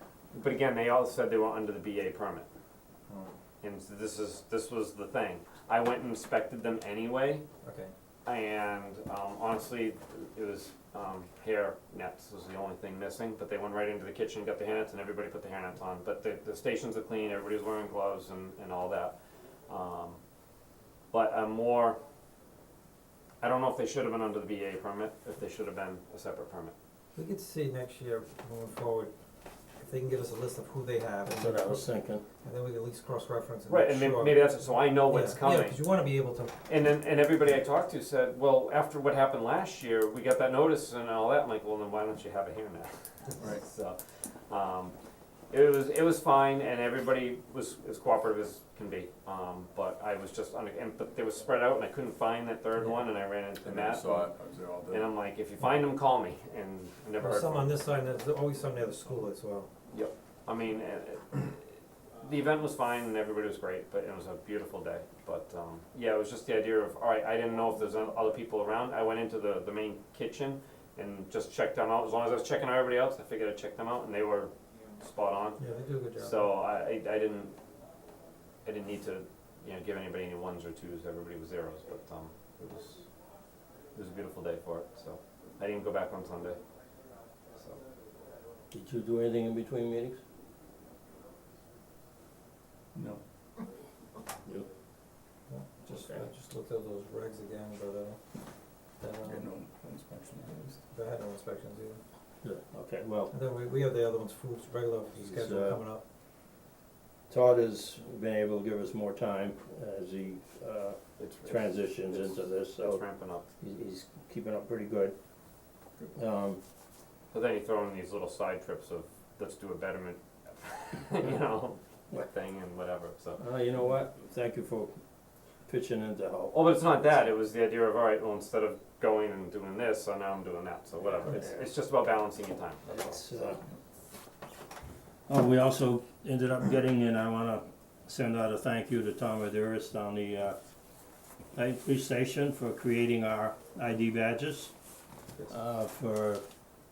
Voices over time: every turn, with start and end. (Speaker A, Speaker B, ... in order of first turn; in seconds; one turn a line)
Speaker A: 0.3-2.5
Speaker B: 3.1-3.3
Speaker A: 3.6-7.4
Speaker B: 7.6-7.9
Speaker A: 8.2-19.2
Speaker A: 19.7-20.2
Speaker A: 21.1-22.0
Speaker A: 23.4-26.7
Speaker B: 27.1-29.1
Speaker B: 29.8-31.9
Speaker C: 31.2-32.2
Speaker B: 32.4-36.6
Speaker A: 33.7-35.8
Speaker A: 36.6-44.9
Speaker D: 43.4-43.6
Speaker A: 45.5-54.3
Speaker D: 53.6-55.1
Speaker A: 54.9-57.8
Speaker B: 57.2-59.7
Speaker A: 59.9-75.6
Speaker B: 75.6-76.5
Speaker A: 76.1-77.5
Speaker A: 78.6-83.1
Speaker A: 83.9-86.6
Speaker A: 87.5-87.8
Speaker C: 88.7-90.2
Speaker D: 92.9-93.2
Speaker B: 95.5-98.2
Speaker C: 95.9-96.2
Speaker B: 99.0-99.5
Speaker D: 99.2-100.8
Speaker B: 100.9-102.0
Speaker C: 102.4-103.3
Speaker B: 103.3-106.0
Speaker C: 105.2-105.8
Speaker C: 107.3-113.0
Speaker A: 111.2-113.5
Speaker C: 113.6-115.2
Speaker C: 116.1-116.6
Speaker A: 117.3-123.4
Speaker C: 123.4-125.0
Speaker C: 125.7-126.5
Speaker A: 126.5-132.9
Speaker C: 131.2-131.6
Speaker C: 132.9-133.6
Speaker C: 135.3-140.6
Speaker C: 141.5-144.7
Speaker C: 145.5-146.4